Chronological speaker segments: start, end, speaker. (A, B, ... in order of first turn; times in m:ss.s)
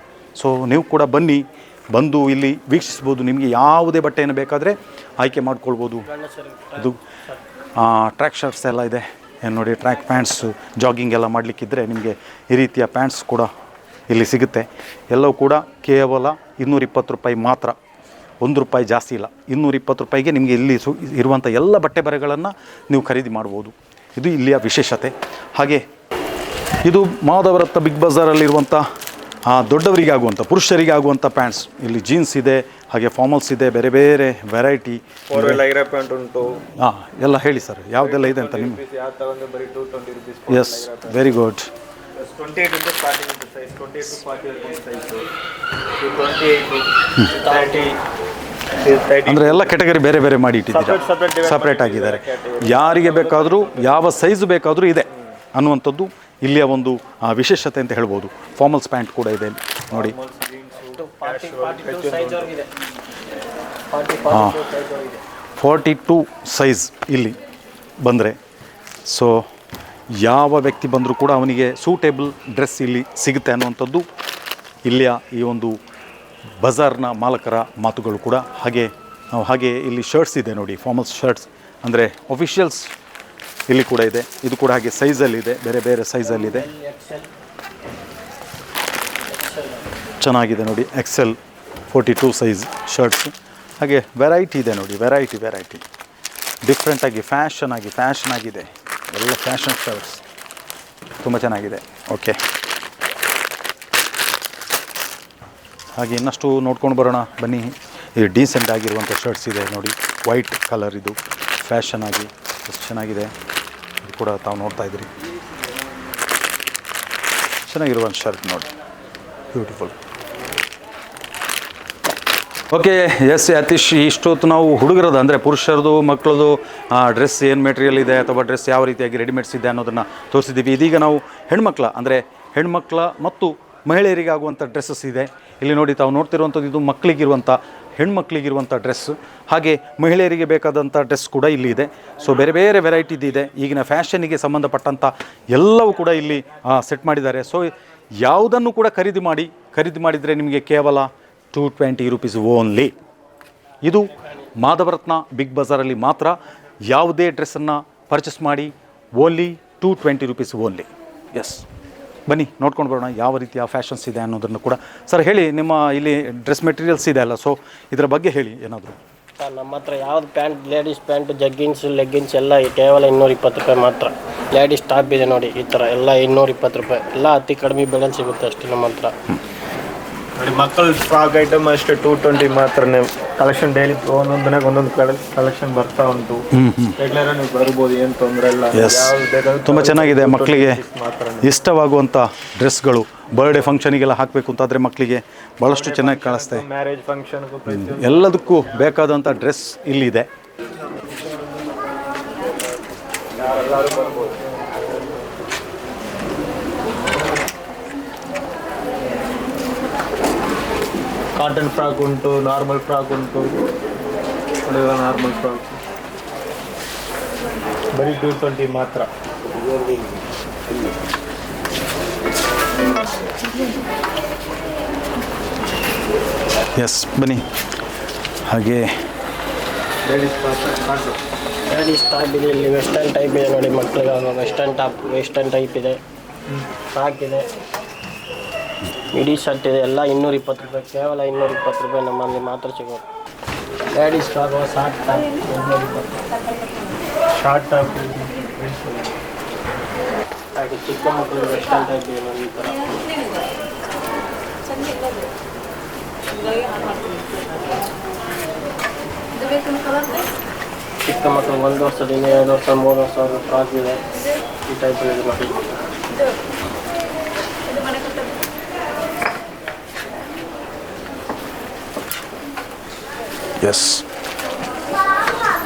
0:00.3-0:06.1 A
0:06.0-0:07.4 B
0:07.7-0:13.5 A
0:14.1-0:17.8 A
0:18.4-0:25.8 A
0:26.8-0:28.9 A
0:29.4-0:35.6 A
0:35.3-0:36.6 C
0:36.8-0:38.8 A
0:38.0-0:41.2 C
0:40.5-0:41.7 A
0:42.2-0:45.3 C
0:46.0-0:48.0 C
0:47.4-0:47.8 B
0:48.8-0:49.7 C
0:49.2-1:00.1 A
0:50.7-0:54.0 C
0:59.9-1:02.5 C
1:00.9-1:02.7 B
1:03.9-1:05.2 B
1:04.3-1:04.6 A
1:05.6-1:07.4 A
1:08.0-1:08.4 A
1:09.0-1:09.4 A
1:10.1-1:14.0 A
1:14.8-1:15.8 A
1:16.6-1:22.9 A
1:23.7-1:26.7 A
1:26.2-1:27.3 B
1:29.3-1:29.9 B
1:30.2-1:31.4 A
1:31.9-1:35.8 A
1:36.6-1:40.2 A
1:41.2-1:42.4 A
1:46.0-1:53.3 A
1:54.0-1:55.1 A
1:57.6-1:58.7 A
1:59.5-2:00.0 A
2:02.7-2:32.9 A
2:33.8-2:41.6 A
2:42.3-2:49.0 A
2:49.4-2:59.1 B
3:00.4-3:06.5 C
3:06.5-3:07.0 A
3:07.0-3:11.5 C
3:08.7-3:09.1 A
3:09.6-3:10.8 A
3:11.4-3:16.6 A
3:15.7-3:18.3 C
3:17.7-3:20.3 A
3:23.3-3:24.5 C
3:31.3-3:33.5 C
3:34.6-3:35.8 C
3:37.9-3:39.1 C
3:46.8-3:47.4 A
3:48.5-3:48.9 A
3:50.0-3:51.2 C
3:51.7-3:56.0 B
3:56.9-3:57.5 B
3:59.1-4:03.0 B
4:03.9-4:06.2 B
4:07.3-4:09.1 C
4:10.5-4:12.9 B
4:21.0-4:24.0 B
4:24.6-4:25.6 B
4:33.6-4:34.0 A